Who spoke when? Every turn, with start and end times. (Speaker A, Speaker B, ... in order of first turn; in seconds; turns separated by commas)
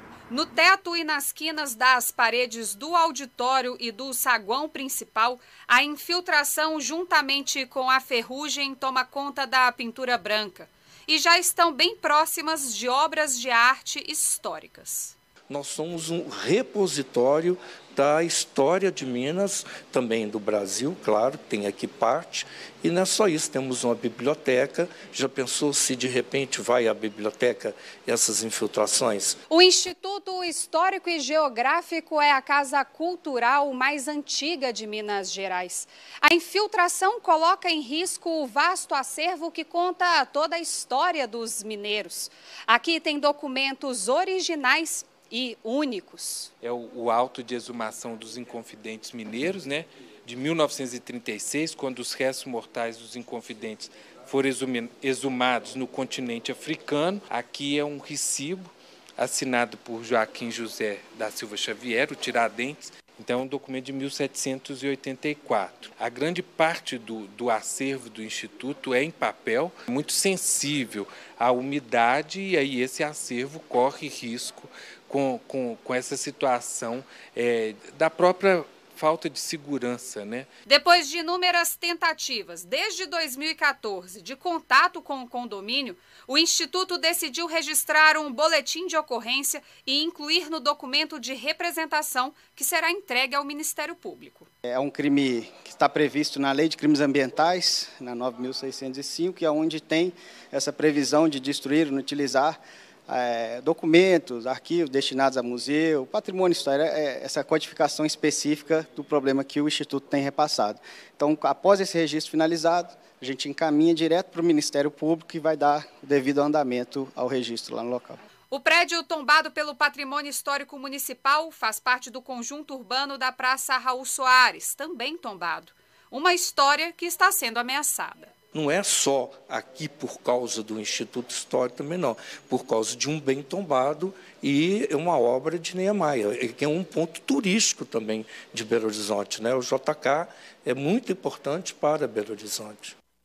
Speaker A: 0.3-15.1, Speaker B: 15.5-29.4, Speaker A: 29.5-46.5, Speaker C: 46.6-80.5, Speaker A: 80.7-94.5, Speaker D: 94.7-118.2, Speaker A: 118.5-128.3, Speaker B: 128.5-142.9